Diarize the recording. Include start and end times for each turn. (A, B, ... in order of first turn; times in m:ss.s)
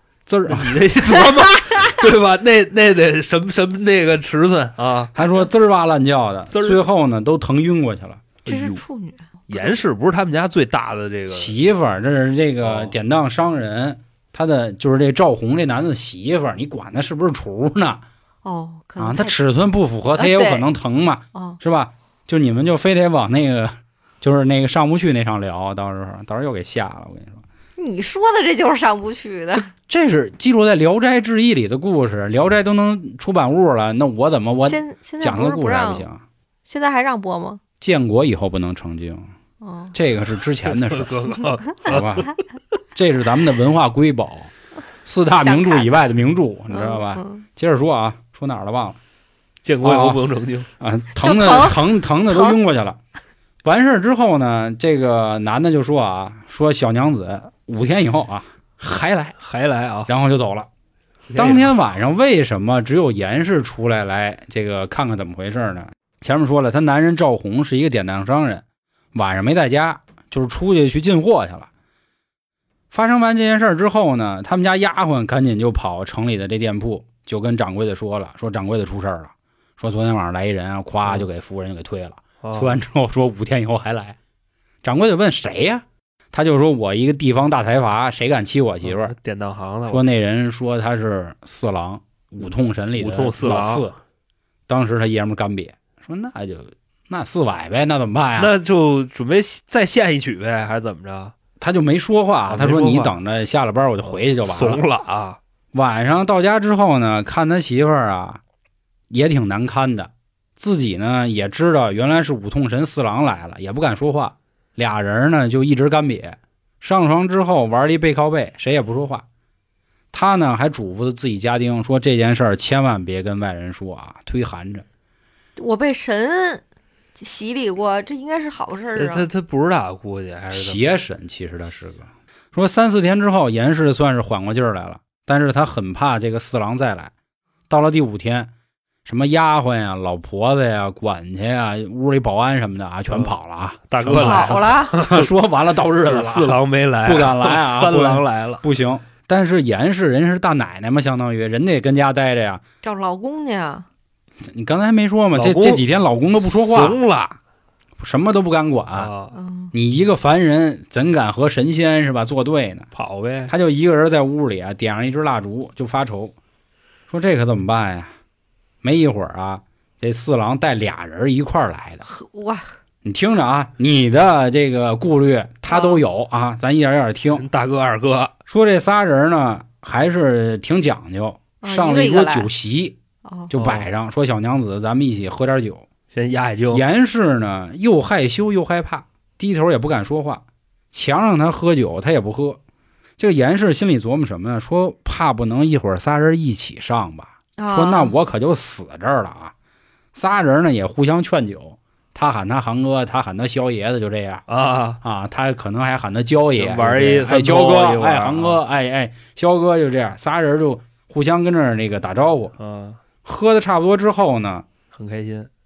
0:00.3-0:00.8 A
0:00.5-0:05.1 B
0:01.3-0:01.9 C
0:05.2-0:08.2 A
0:05.2-0:05.4 C
0:06.5-0:06.8 B
0:08.4-0:09.8 C
0:08.5-0:08.8 B
0:09.5-0:11.5 B
0:11.3-0:18.0 A
0:12.6-0:13.0 B
0:18.4-0:19.4 C
0:19.0-0:27.4 A
0:20.2-0:20.7 C
0:27.8-0:29.7 C
0:29.5-0:36.2 A
0:34.6-0:36.1 C
0:36.7-0:37.6 C
0:37.8-0:39.3 A
0:39.6-0:40.0 C
0:39.9-0:41.2 A
0:40.6-0:42.3 B
0:41.8-0:42.3 A
0:43.0-0:44.5 A
0:45.0-0:49.0 A
0:45.4-0:45.9 C
0:46.7-0:47.4 C
0:49.6-0:50.7 B
0:49.8-0:50.2 A
0:50.8-0:53.0 A
0:51.2-0:52.6 C
0:53.6-0:59.4 A
0:59.4-1:00.1 B
1:00.1-1:00.7 A
1:01.3-1:01.7 B
1:01.4-1:08.6 A
1:09.1-1:11.7 A
1:12.9-1:24.2 A
1:22.4-1:22.8 B
1:24.8-1:29.2 A
1:28.8-1:30.0 B
1:29.9-1:34.0 A
1:33.0-1:33.9 B
1:34.7-1:38.5 A
1:38.4-1:41.3 B
1:41.6-1:44.8 A
1:42.5-1:43.2 B
1:44.0-1:45.4 B
1:45.7-1:48.4 A
1:49.1-1:59.2 A
2:00.1-2:04.8 A
2:05.6-2:06.6 C
2:07.2-2:09.3 C
2:09.0-2:10.8 B
2:10.5-2:17.1 A
2:17.7-2:18.5 A
2:19.0-2:32.6 A
2:23.1-2:23.3 B
2:23.9-2:25.3 B
2:24.1-2:25.0 C
2:26.0-2:28.6 B
2:32.8-2:33.9 C
2:34.5-2:37.0 A
2:35.3-2:35.9 B
2:36.6-2:37.4 B
2:38.0-2:39.1 A
2:38.9-2:39.4 B
2:39.3-2:39.7 C
2:39.7-2:42.9 A
2:42.9-2:43.5 B
2:43.5-2:46.3 A
2:47.1-2:48.1 A
2:48.8-2:52.0 A
2:52.0-2:52.7 C
2:53.0-2:57.4 A
2:55.7-2:56.0 C
2:57.3-2:58.3 B
2:58.5-3:03.0 A
3:01.6-3:02.5 C
3:03.2-3:03.5 C
3:03.5-3:05.9 A
3:03.6-3:03.9 B
3:06.1-3:06.8 B
3:06.7-3:12.6 A
3:13.2-3:19.5 A
3:17.6-3:18.2 C
3:20.1-3:24.4 A
3:24.5-3:25.0 B
3:25.0-3:32.6 A
3:26.6-3:28.6 B
3:32.6-3:33.0 B
3:33.2-3:34.7 A
3:34.9-3:35.5 B